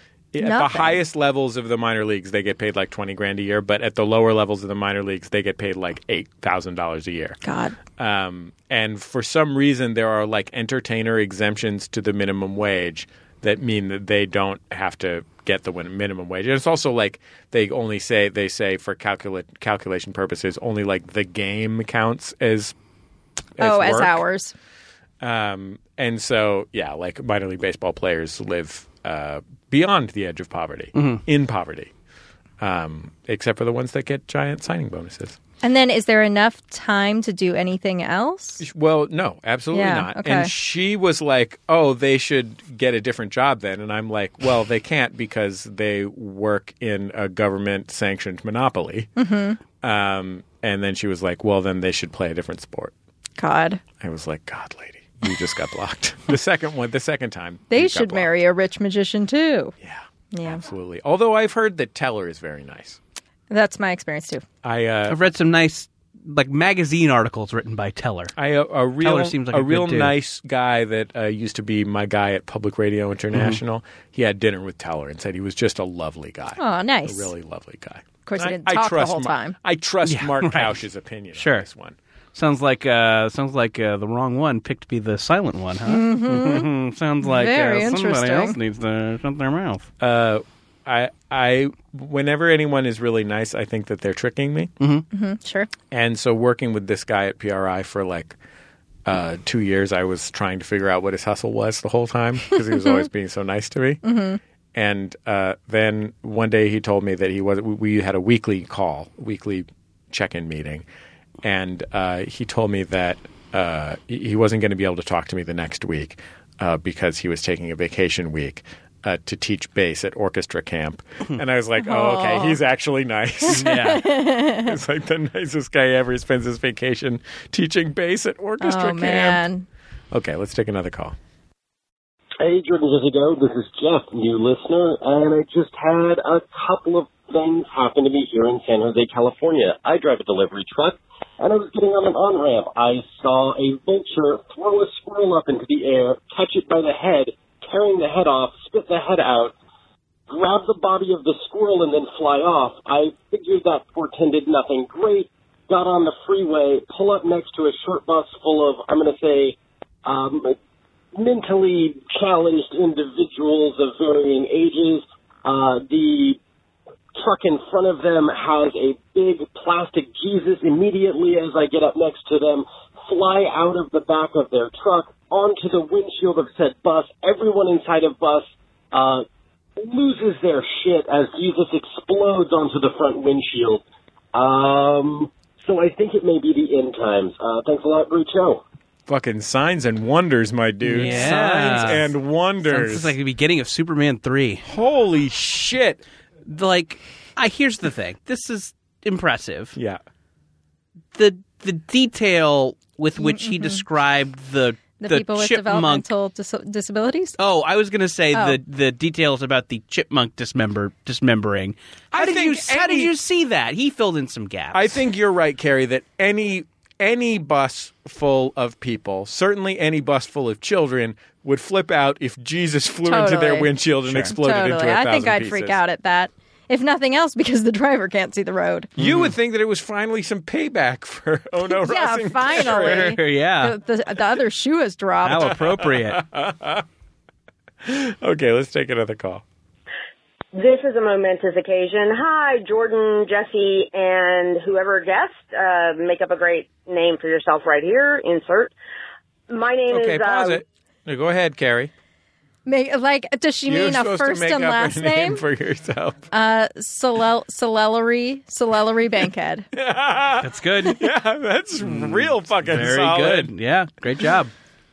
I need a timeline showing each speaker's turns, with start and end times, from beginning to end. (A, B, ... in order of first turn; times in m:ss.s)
0:00.3-0:07.4 A
0:00.4-0:01.0 B
0:07.4-0:07.8 B
0:08.0-0:22.7 A
0:23.6-0:24.2 A
0:23.6-0:24.5 B
0:25.2-0:31.9 A
0:30.9-0:31.2 C
0:32.6-0:35.4 A
0:35.6-0:38.6 B
0:38.6-0:49.1 A
0:39.7-0:40.5 B
0:49.2-0:49.6 B
0:49.8-0:52.9 A
0:53.4-0:53.8 B
0:54.0-0:58.3 A
0:57.7-0:59.7 B
0:59.8-1:03.0 A
1:00.3-1:00.6 B
1:03.5-1:04.4 B
1:04.6-1:05.2 A
1:05.1-1:08.3 C
1:08.4-1:21.9 A
1:09.0-1:10.1 C
1:13.3-1:13.6 C
1:16.6-1:17.3 B
1:18.2-1:19.5 B
1:20.0-1:20.8 C
1:21.4-1:21.6 C
1:22.3-1:29.9 C
1:25.8-1:26.7 B
1:27.2-1:28.6 B
1:30.0-1:34.7 A
1:35.1-1:35.7 B
1:35.9-1:38.4 A
1:39.0-1:44.0 A
1:44.0-1:44.4 B
1:44.7-1:50.8 A
1:51.4-2:09.4 A
2:01.8-2:02.6 B
2:03.5-2:04.0 C
2:03.5-2:04.8 B
2:08.6-2:09.6 B
2:10.1-2:11.2 A
2:12.4-2:29.5 D
2:30.3-2:40.6 D
2:41.1-2:46.4 D
2:47.2-2:59.2 D
2:59.8-3:03.8 D
3:04.3-3:08.6 D
3:09.1-3:13.1 A
3:10.8-3:12.1 C
3:12.6-3:14.6 C
3:14.7-3:16.0 A
3:16.4-3:19.8 C
3:21.1-3:26.0 C
3:23.2-3:23.8 B
3:25.0-3:27.4 B
3:27.4-3:35.0 C
3:28.3-3:28.6 B
3:32.1-3:33.1 A
3:34.7-3:45.8 A
3:43.0-3:43.7 B
3:44.1-3:44.3 C
3:44.2-3:48.9 B
3:49.0-3:49.3 C
3:49.0-3:53.2 A
3:51.8-3:55.5 B
3:52.6-3:53.8 C
3:55.2-3:56.2 C
3:55.4-3:56.8 A
3:57.8-3:59.4 A
4:00.5-4:08.7 E
4:09.5-4:10.6 E
4:09.9-4:11.9 A
4:12.6-4:15.4 B
4:13.6-4:16.2 A
4:16.3-4:19.7 B
4:19.7-4:23.5 A
4:20.4-4:21.1 C
4:21.8-4:24.5 C